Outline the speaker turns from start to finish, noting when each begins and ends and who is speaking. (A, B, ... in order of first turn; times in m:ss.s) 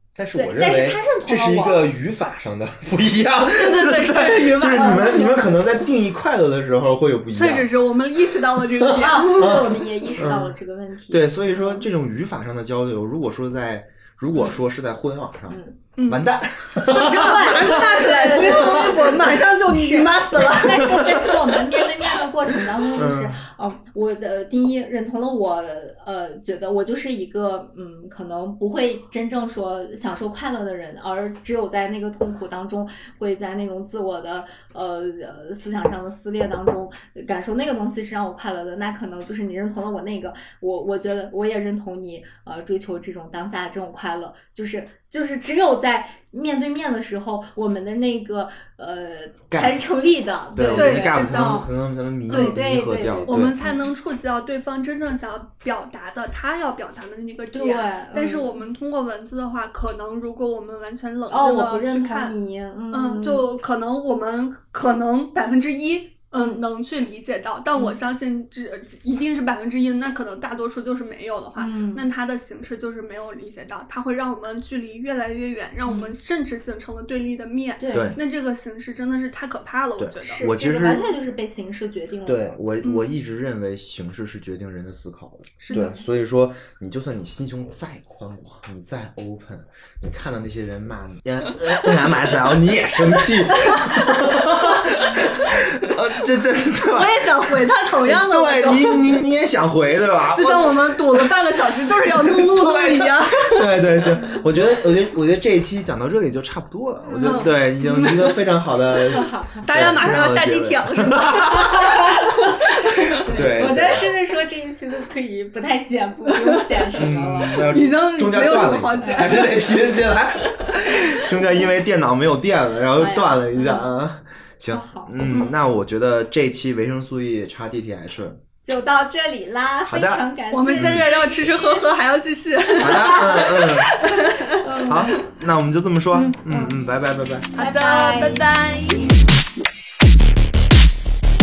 0:00.1-0:07.7 A
0:00.3-0:01.9 B
0:03.4-0:05.6 C
0:04.6-0:05.6 B
0:07.3-0:09.5 C
0:08.7-0:10.6 A
0:08.9-0:11.9 B
0:11.1-0:19.2 A
0:15.5-0:15.8 B
0:16.0-0:22.3 C
0:16.9-0:51.7 B
0:20.4-0:21.3 A
0:22.5-0:23.4 A
0:49.5-0:49.8 A
0:50.5-0:53.5 A
0:50.7-0:51.7 C
0:52.3-0:53.8 B
0:52.3-0:52.6 C
0:53.2-1:02.4 C
0:57.5-0:58.6 B
1:01.3-1:03.5 B
1:02.9-1:20.4 C
1:11.6-1:12.0 B
1:15.8-1:16.1 B
1:17.8-1:18.2 B
1:17.9-1:18.2 A
1:20.0-1:21.1 A
1:20.2-1:22.6 B
1:22.2-1:51.8 A
1:22.8-1:23.1 C
1:25.6-1:26.0 C
1:25.7-1:26.0 B
1:33.2-1:35.0 C
1:36.9-1:39.2 C
1:40.3-1:43.8 C
1:44.0-1:44.6 B
1:47.0-1:47.5 B
1:47.2-1:48.4 C
1:49.1-1:49.7 B
1:49.6-1:53.2 C
1:51.6-1:52.6 B
1:53.1-1:54.1 A
1:53.2-1:57.7 B
1:57.0-2:08.4 A
1:57.5-1:59.9 C
2:01.0-2:01.3 C
2:03.0-2:03.9 B
2:04.7-2:05.5 B
2:05.3-2:05.5 C
2:08.6-2:11.3 B
2:09.8-2:11.1 A
2:10.5-2:15.0 C
2:12.8-2:13.9 A
2:13.1-2:13.6 B
2:14.3-2:15.3 B
2:14.9-2:17.5 A
2:16.1-2:16.7 C
2:17.5-2:19.2 C
2:17.6-2:18.5 B